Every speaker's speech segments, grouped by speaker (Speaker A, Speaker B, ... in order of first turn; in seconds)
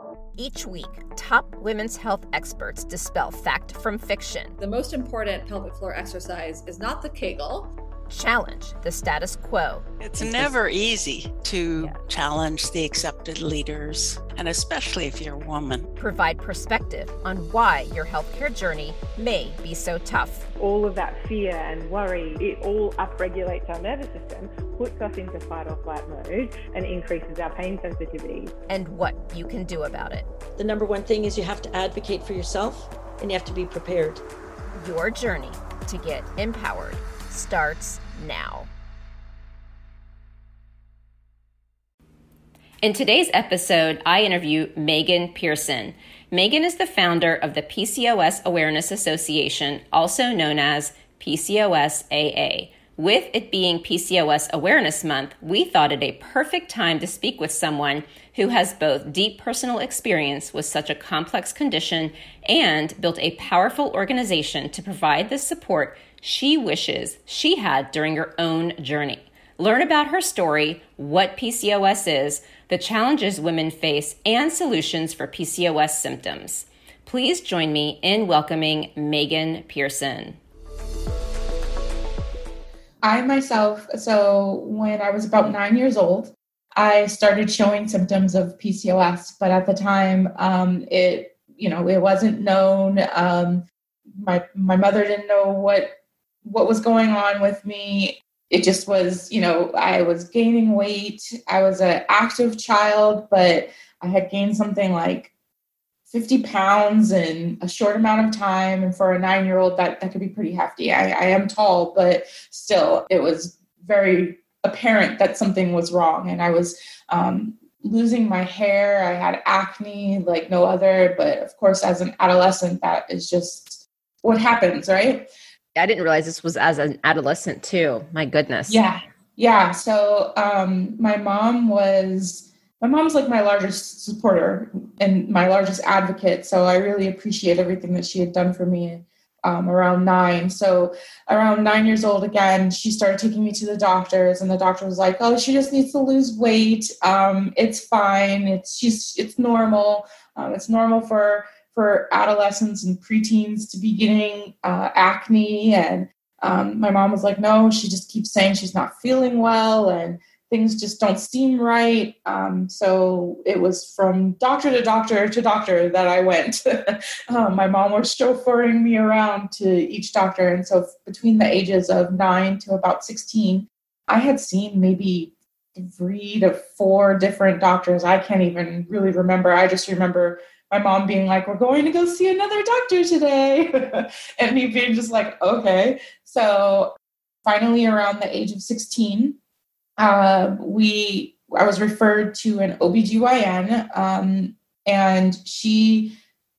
Speaker A: 0.4-4.6, 8.1-10.6, 16.0-20.5, 28.7-30.3, 34.8-38.7, 42.8-80.4, 125.8-128.8
Speaker B: 4.6-7.7
Speaker C: 10.0-15.9
Speaker D: 20.6-28.5
Speaker E: 30.6-34.2
Speaker F: 83.0-93.7, 94.2-105.3, 106.1-125.3, 128.7-186.9, 187.4-189.4, 190.0-196.2